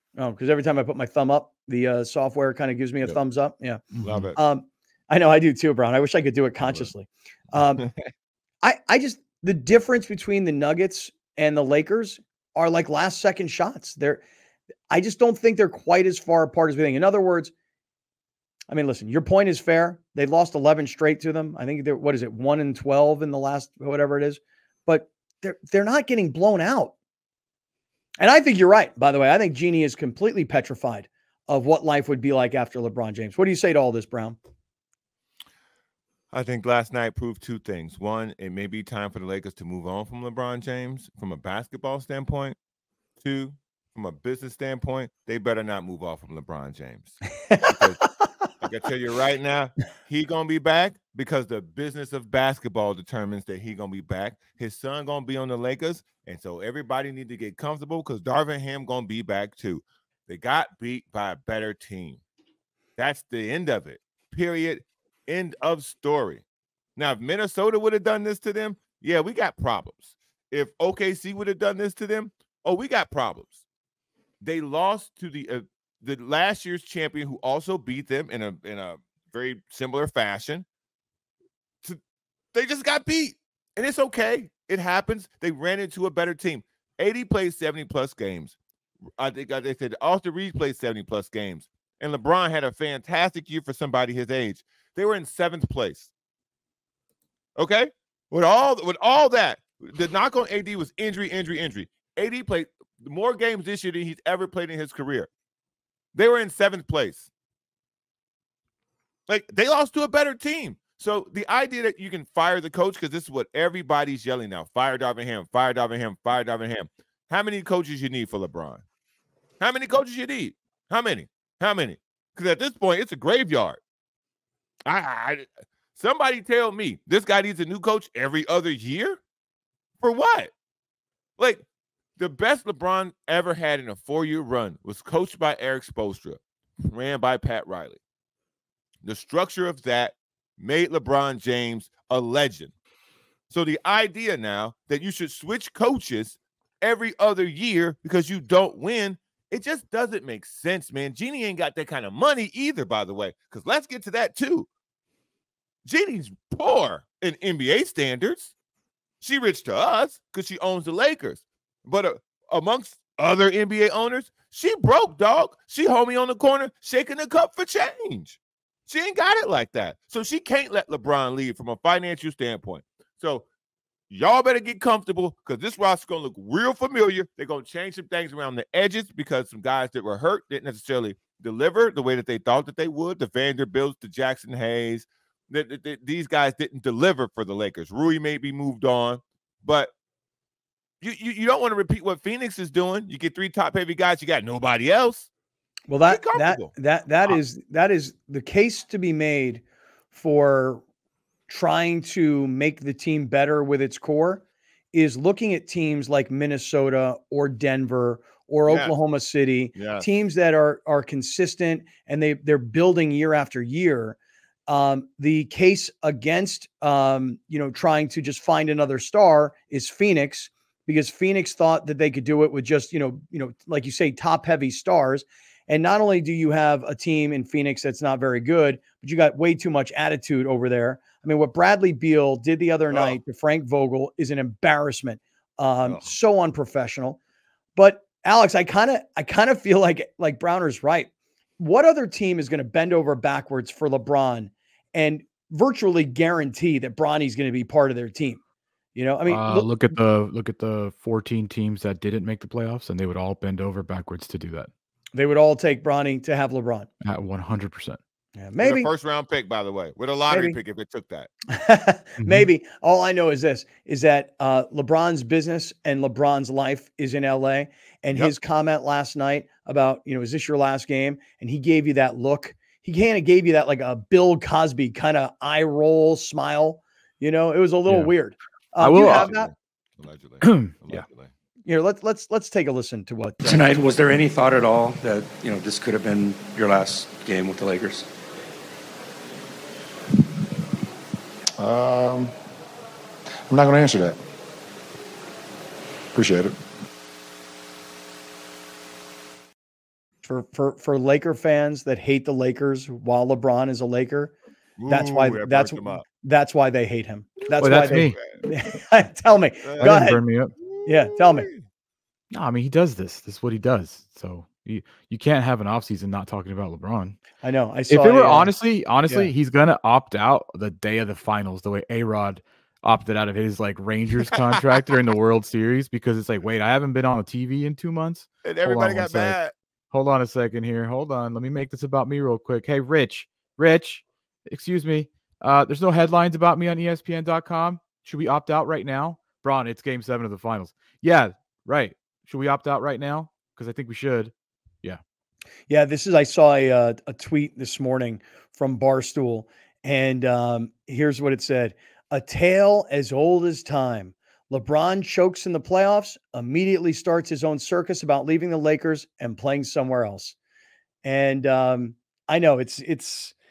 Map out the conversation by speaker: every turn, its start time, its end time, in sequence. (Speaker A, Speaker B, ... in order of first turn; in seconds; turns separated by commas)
Speaker A: 0.2-3.8, Speaker B: 3.9-4.3, Speaker C: 4.0-4.4, Speaker A: 4.4-7.8, Speaker A: 8.6-14.2, Speaker A: 14.9-17.5, Speaker A: 18.7-26.9, Speaker A: 28.2-34.4, Speaker C: 36.3-42.6, Speaker C: 43.2-48.0, Speaker A: 47.5-48.0, Speaker C: 48.6-62.2, Speaker C: 63.0-66.4, Speaker C: 67.0-73.6, Speaker C: 74.4-80.7, Speaker C: 82.5-88.6, Speaker C: 89.2-96.1, Speaker C: 97.6-105.3, Speaker C: 106.1-107.3, Speaker C: 109.3-118.8, Speaker C: 119.6-123.8, Speaker C: 124.9-129.2, Speaker C: 130.0-130.5, Speaker C: 132.2-138.0, Speaker C: 139.0-142.7, Speaker C: 143.5-154.7, Speaker C: 155.8-158.5, Speaker C: 159.2-173.5, Speaker C: 174.1-189.9, Speaker C: 191.0-195.3, Speaker A: 195.9-200.8, Speaker C: 196.1-196.7, Speaker A: 201.5-214.2, Speaker C: 208.7-208.9, Speaker C: 209.8-210.1, Speaker A: 214.7-237.2, Speaker C: 232.9-233.2, Speaker A: 237.8-248.4, Speaker A: 248.9-249.7, Speaker B: 249.3-254.7, Speaker A: 255.1-256.9, Speaker B: 257.0-258.0, Speaker A: 258.4-258.9, Speaker C: 258.6-261.3, Speaker A: 260.3-260.6, Speaker A: 261.5-279.5, Speaker B: 262.2-262.5, Speaker B: 277.9-278.1, Speaker B: 278.8-279.3, Speaker C: 278.9-281.3, Speaker B: 280.4-281.0, Speaker A: 281.7-283.6, Speaker D: 283.4-288.1, Speaker E: 291.6-292.3, Speaker E: 293.5-294.2, Speaker E: 296.1-296.6, Speaker A: 300.2-304.3, Speaker C: 304.8-306.1, Speaker A: 304.9-310.2, Speaker C: 307.6-308.5, Speaker B: 307.6-308.2, Speaker C: 309.6-310.0, Speaker B: 309.8-310.5, Speaker C: 310.6-311.6, Speaker A: 310.9-311.5, Speaker B: 312.3-317.2, Speaker A: 317.4-318.5, Speaker B: 317.9-329.4, Speaker C: 328.4-329.5, Speaker B: 329.9-344.3, Speaker A: 345.7-360.4, Speaker A: 361.0-363.3